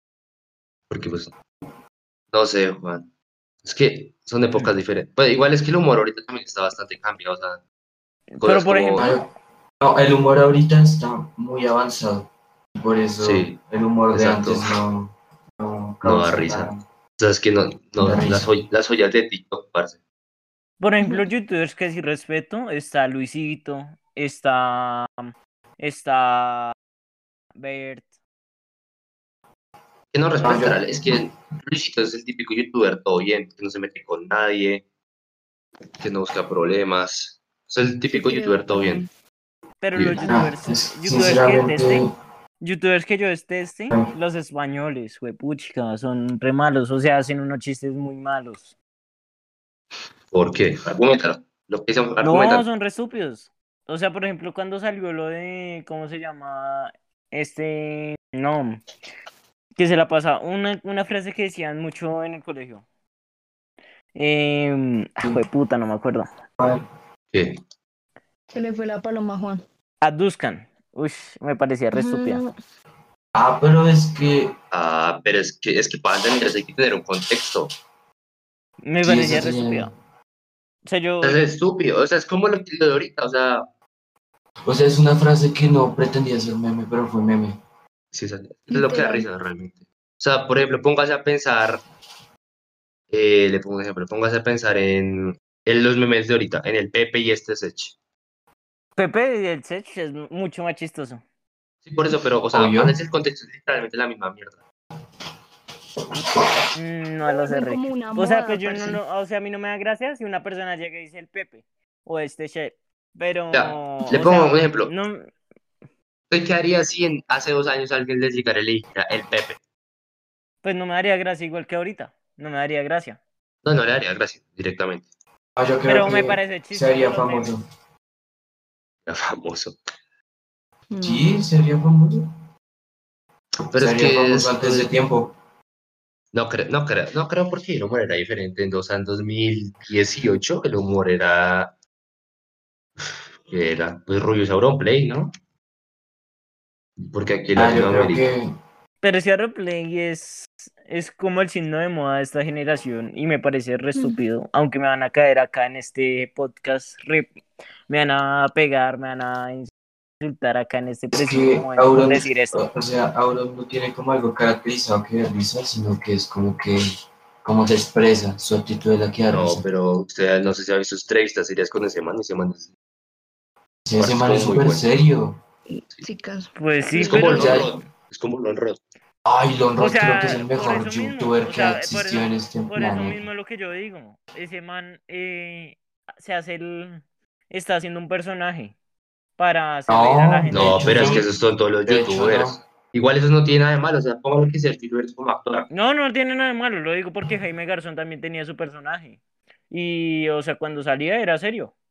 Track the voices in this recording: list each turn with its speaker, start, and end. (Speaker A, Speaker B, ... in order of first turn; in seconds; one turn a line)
Speaker A: 0.9-1.3
Speaker A: 2.3-3.1
Speaker A: 3.6-7.6
Speaker B: 8.3-9.1
Speaker A: 8.4-9.1
Speaker C: 9.0-9.3
Speaker C: 9.8-16.8
Speaker A: 13.2-13.6
Speaker A: 14.1-14.7
Speaker A: 16.0-20.0
Speaker C: 18.0-18.5
Speaker B: 20.8-26.8
Speaker B: 27.6-28.1
Speaker A: 30.1-34.9
Speaker C: 30.4-31.2
Speaker A: 36.0-39.0
Speaker D: 38.1-39.1
Speaker B: 39.8-42.0
Speaker A: 40.0-40.2
Speaker C: 40.2-42.1
Speaker B: 42.6-48.7
Speaker A: 50.3-52.6
Speaker B: 52.2-58.8
Speaker B: 59.8-62.8
Speaker B: 64.2-66.3
Speaker C: 66.6-66.8
Speaker A: 67.3-67.6
Speaker D: 68.5-69.6
Speaker B: 70.0-72.4
Speaker D: 71.9-72.5
Speaker C: 73.3-74.5
Speaker A: 74.7-77.7
Speaker B: 78.8-79.9
Speaker C: 79.0-79.9
Speaker B: 80.9-81.4
Speaker A: 81.2-83.7
Speaker C: 84.7-87.6
Speaker A: 88.1-91.8
Speaker D: 88.7-89.3
Speaker A: 93.1-98.0
Speaker B: 99.0-101.2
Speaker A: 101.8-104.6
Speaker C: 102.5-103.0
Speaker B: 106.8-115.3
Speaker D: 107.3-109.0
Speaker A: 113.5-114.9
Speaker A: 116.3-119.6
Speaker B: 120.6-123.2
Speaker A: 123.6-125.1
Speaker C: 125.6-127.6
Speaker B: 125.9-127.5
Speaker A: 129.1-129.8
Speaker D: 130.9-131.4
Speaker C: 131.0-132.3
Speaker A: 133.7-135.0
Speaker C: 133.8-135.4
Speaker A: 136.3-141.7
Speaker A: 143.0-145.3
Speaker A: 147.0-148.3
Speaker C: 147.6-148.5
Speaker B: 149.0-157.3
Speaker B: 157.9-162.7
Speaker C: 161.1-166.8
Speaker C: 167.4-169.7
Speaker A: 169.3-172.7
Speaker C: 173.8-175.4
Speaker A: 174.0-174.9
Speaker D: 175.7-177.7
Speaker B: 176.6-177.5
Speaker A: 177.0-178.8
Speaker C: 177.3-177.7
Speaker C: 179.2-183.3
Speaker B: 179.8-188.8
Speaker B: 189.4-191.3
Speaker C: 189.9-191.3
Speaker A: 190.5-195.7
Speaker C: 191.9-192.6
Speaker B: 195.7-199.2
Speaker B: 199.7-201.7